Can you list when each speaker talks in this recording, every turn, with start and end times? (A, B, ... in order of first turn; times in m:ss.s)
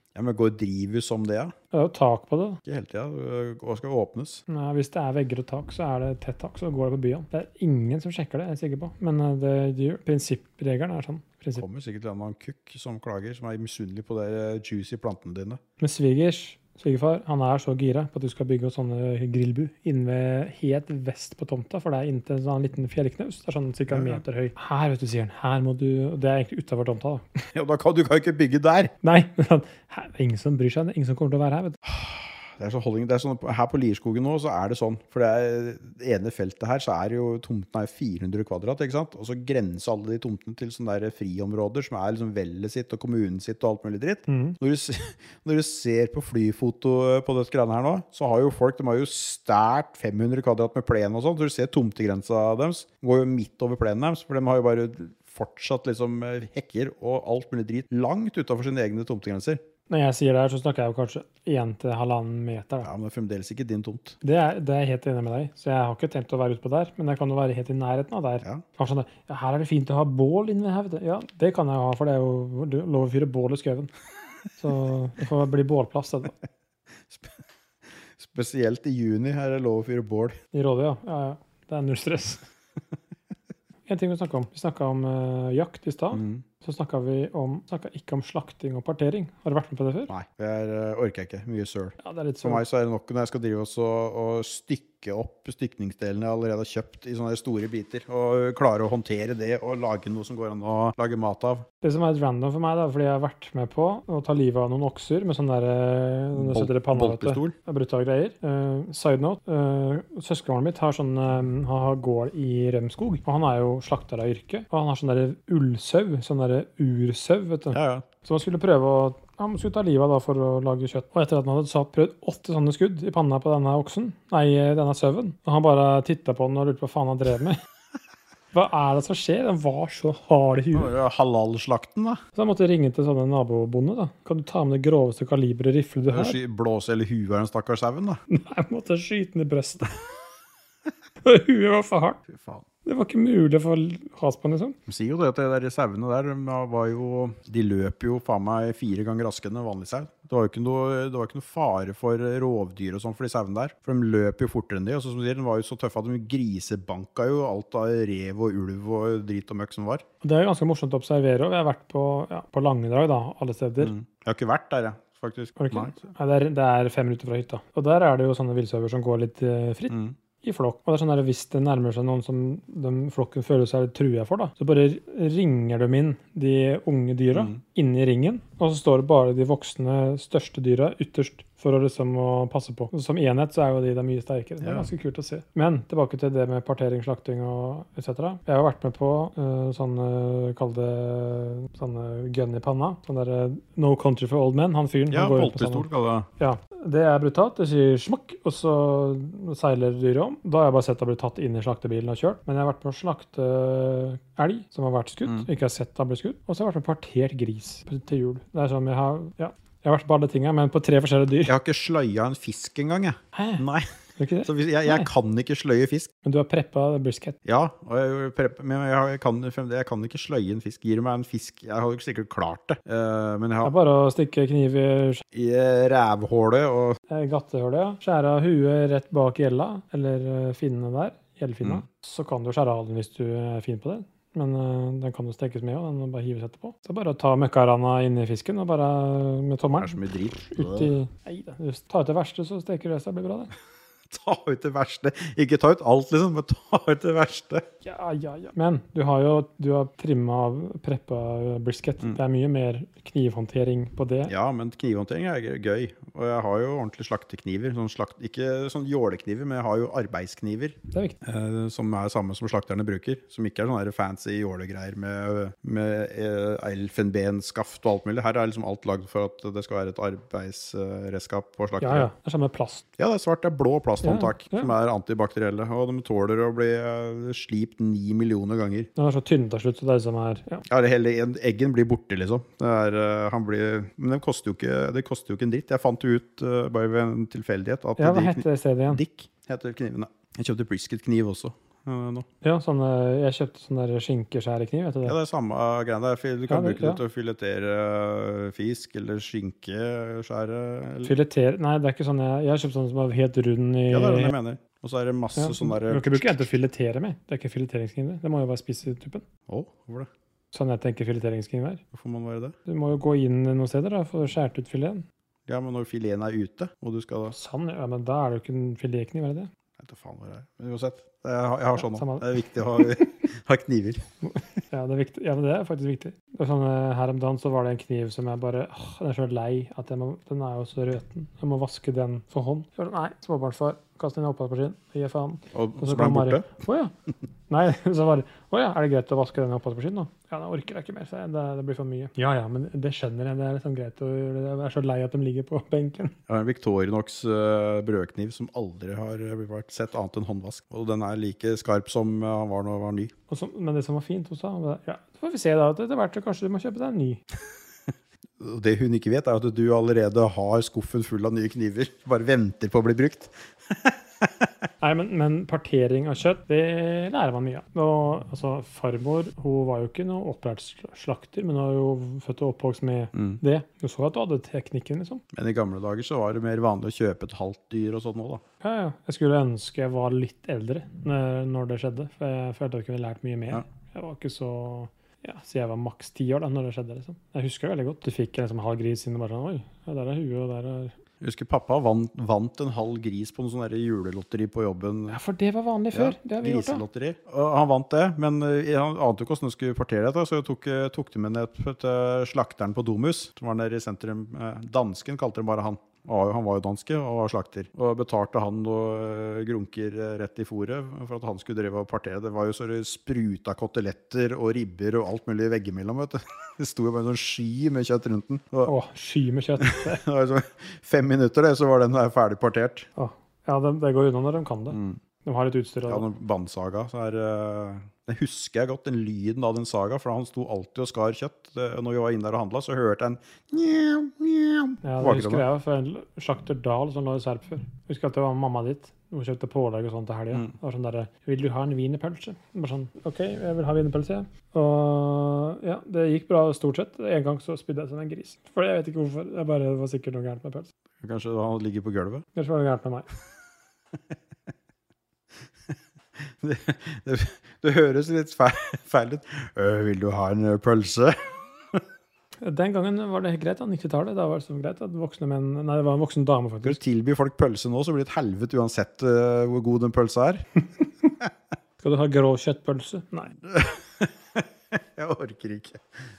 0:00.1-0:01.5 A
0:01.7-0:02.6 B
0:02.6-0:04.4 A
0:04.5-0:11.6 B
0:11.6-0:15.6 A
0:15.8-0:27.4 B
0:23.9-0:24.2 A
0:27.5-0:28.9 A
0:29.0-0:31.8 B
0:31.8-0:59.6 A
0:44.3-0:44.6 B
0:59.9-1:02.9 B
1:02.8-1:04.2 A
1:04.2-1:13.9 B
1:14.6-1:16.4 B
1:17.1-1:17.4 A
1:18.2-1:20.4 A
1:20.5-1:22.4 B
1:23.9-1:30.1 B
1:26.1-1:26.4 A
1:30.1-1:41.6 A
1:32.0-1:32.6 B
1:41.8-2:07.6 B
1:46.3-1:47.6 A
1:57.7-1:58.1 A
2:08.5-2:10.9 B
2:10.7-2:12.2 A
2:12.4-2:16.4 B
2:16.1-2:18.2 A
2:18.3-2:19.9 B
2:21.2-2:22.2 B
2:22.3-2:22.6 A
2:22.8-2:24.8 B
2:24.9-2:40.0 A
2:40.2-2:43.9 B
2:43.8-2:46.1 A
2:45.6-3:31.5 B
2:49.9-2:50.1 A
2:57.3-2:57.6 A
3:04.6-3:04.9 A
3:15.1-3:16.3 A
3:31.4-3:36.1 A
3:33.3-3:33.6 B
3:34.2-3:35.1 B
3:36.2-3:37.4 B
3:37.4-3:43.7 A
3:43.6-3:45.2 B
3:45.3-3:47.0 A
3:47.1-4:00.0 B
3:59.8-4:00.9 A
4:00.5-4:03.5 B
4:04.1-4:07.6 A
4:07.8-4:14.3 B
4:14.3-4:32.1 A
4:20.9-4:21.2 B
4:31.8-4:32.8 B
4:33.0-4:38.9 A
4:34.0-4:34.7 B
4:39.0-4:40.6 B
4:40.7-4:52.3 A
4:48.0-4:49.0 B
4:52.4-4:55.2 B
4:55.0-5:01.1 A
4:56.5-4:57.0 B
5:01.0-5:04.3 B
5:03.9-5:06.6 A
5:05.4-5:09.3 B
5:09.5-5:10.1 A
5:10.5-5:11.8 B
5:11.9-5:12.6 A
5:12.6-5:15.0 B
5:15.5-5:17.3 A
5:17.3-5:19.5 B
5:19.8-5:24.1 A
5:21.7-5:23.1 B
5:24.7-5:36.9 B
5:35.5-5:36.5 A
5:37.5-5:46.2 B
5:46.3-5:53.1 A
5:53.3-5:57.2 B
5:58.4-6:04.5 A
6:04.8-6:15.2 B
6:13.1-6:13.4 A
6:15.3-6:18.4 A
6:18.6-6:31.0 B
6:31.2-6:35.2 A
6:35.1-6:36.8 B
6:35.9-6:58.7 A
6:58.6-7:00.0 B
6:59.6-7:02.9 A
7:03.0-7:06.1 B
7:04.7-7:05.0 A
7:05.9-7:15.4 A
7:14.8-7:30.7 B
7:31.0-7:32.3 A
7:32.3-7:33.1 B
7:36.4-7:41.8 A
7:42.4-7:46.8 B
7:46.6-7:50.4 A
7:51.8-7:53.3 B
7:53.4-7:55.8 A